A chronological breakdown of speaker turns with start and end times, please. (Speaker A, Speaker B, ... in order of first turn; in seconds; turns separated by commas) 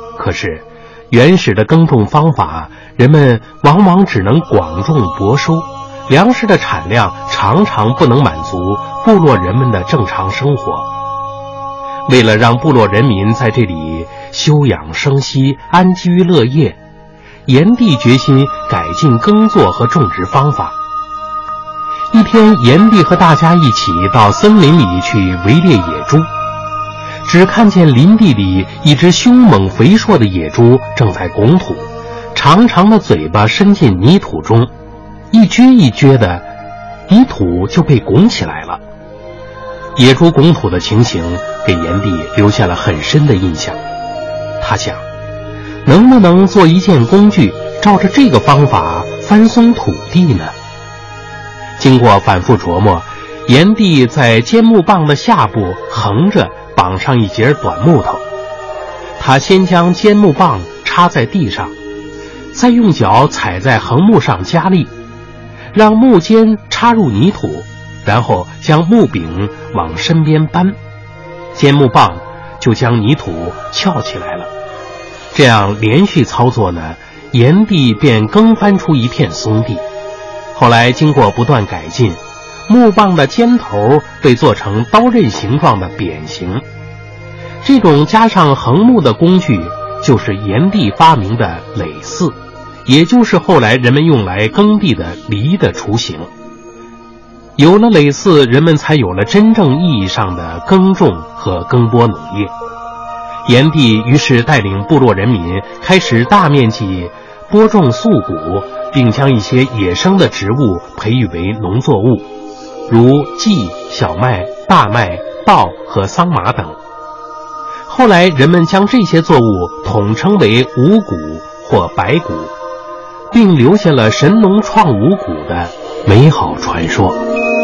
Speaker A: 0.1-10.9, Speaker A: 12.1-16.8, Speaker A: 17.5-20.8, Speaker A: 22.1-26.3, Speaker A: 27.2-34.7, Speaker A: 35.3-36.5, Speaker A: 37.1-38.8, Speaker A: 40.0-43.8, Speaker A: 44.6-45.0, Speaker A: 45.9-50.5, Speaker A: 51.8-58.2, Speaker A: 59.2-61.7, Speaker A: 62.5-64.9, Speaker A: 65.7-70.8, Speaker A: 71.5-74.5, Speaker A: 75.3-79.8, Speaker A: 80.5-86.6, Speaker A: 87.6-92.3, Speaker A: 92.9-96.3, Speaker A: 97.6-102.5, Speaker A: 103.4-112.3, Speaker A: 112.9-116.8, Speaker A: 117.9-122.5, Speaker A: 123.3-127.2